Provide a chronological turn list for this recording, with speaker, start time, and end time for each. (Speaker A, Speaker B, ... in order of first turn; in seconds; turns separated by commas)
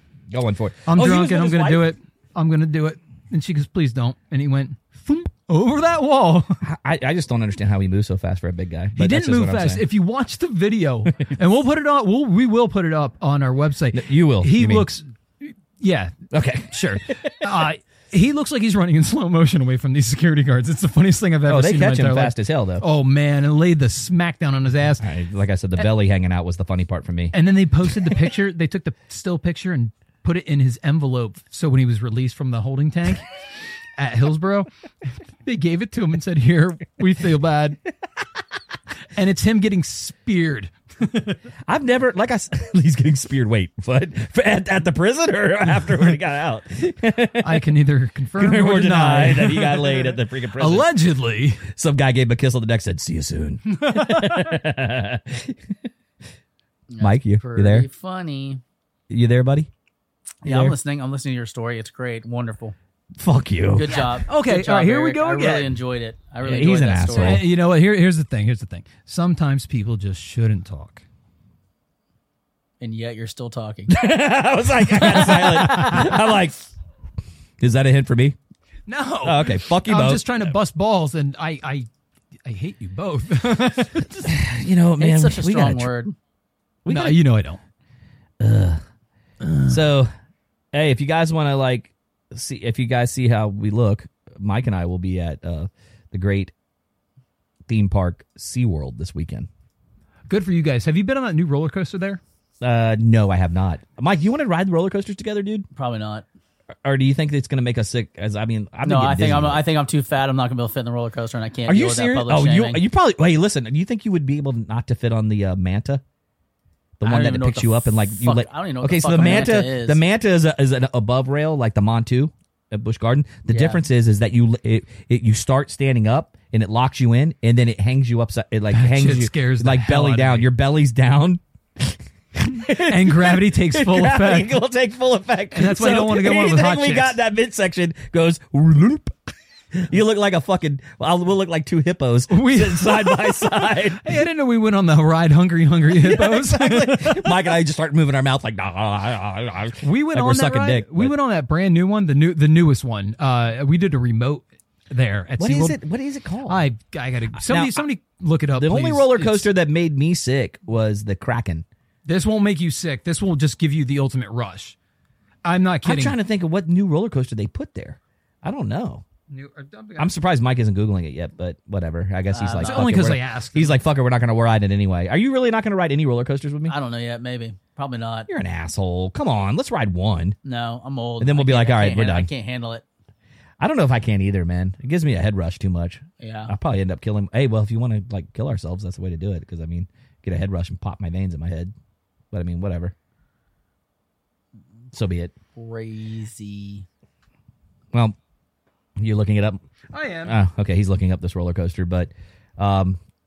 Speaker A: 0.3-1.9, Speaker B: 0.9-6.6, Speaker A: 6.6-9.8, Speaker B: 9.0-16.1, Speaker A: 13.9-14.9, Speaker A: 16.3-17.2, Speaker B: 16.7-25.0, Speaker A: 21.5-22.8, Speaker A: 25.0-27.4, Speaker B: 27.3-33.2, Speaker B: 34.0-34.7, Speaker B: 35.4-37.8, Speaker B: 39.1-41.4, Speaker A: 41.7-47.6, Speaker B: 47.4-51.6, Speaker A: 48.4-50.9, Speaker A: 51.7-55.6, Speaker B: 53.8-54.3, Speaker C: 56.9-58.6, Speaker A: 57.0-57.9, Speaker A: 59.1-59.7, Speaker C: 60.4-62.8, Speaker A: 60.5-60.8, Speaker A: 63.2-63.9, Speaker C: 63.8-67.4, Speaker B: 63.9-65.7, Speaker A: 66.4-67.5, Speaker B: 67.2-71.0, Speaker C: 72.8-74.0, Speaker A: 73.9-76.6, Speaker B: 75.0-76.0, Speaker A: 77.6-78.4, Speaker B: 78.9-81.9, Speaker A: 79.2-80.5, Speaker B: 82.5-84.3, Speaker A: 84.2-85.9, Speaker C: 85.0-86.2, Speaker A: 86.8-87.2, Speaker B: 86.9-87.6, Speaker A: 88.4-88.8, Speaker B: 89.4-89.8, Speaker A: 89.7-90.1, Speaker A: 90.7-96.5, Speaker A: 97.7-99.5, Speaker B: 100.3-102.2, Speaker A: 102.6-105.7, Speaker C: 105.8-106.2, Speaker A: 106.8-109.6, Speaker C: 108.8-112.8, Speaker A: 111.7-116.0, Speaker A: 117.0-139.2, Speaker C: 117.0-120.0, Speaker C: 123.5-123.8, Speaker B: 128.7-130.5, Speaker B: 132.4-134.6, Speaker B: 135.5-137.2, Speaker A: 139.7-144.1, Speaker B: 142.3-147.4, Speaker A: 145.9-151.1, Speaker B: 149.8-155.8, Speaker A: 155.4-156.7, Speaker B: 156.5-159.5, Speaker A: 157.4-157.8, Speaker A: 158.6-161.7, Speaker B: 162.1-164.8, Speaker B: 165.4-166.2, Speaker A: 165.8-169.0, Speaker B: 169.3-170.1, Speaker A: 170.0-176.8, Speaker C: 172.3-172.9, Speaker B: 172.6-173.8, Speaker C: 176.7-178.3, Speaker A: 178.3-180.4, Speaker C: 180.4-182.8, Speaker A: 181.2-182.3, Speaker A: 183.6-191.7, Speaker C: 186.2-186.5, Speaker A: 192.3-192.9, Speaker A: 194.9-195.3, Speaker C: 195.6-196.9, Speaker A: 199.0-199.6, Speaker B: 199.9-200.4, Speaker A: 200.2-203.0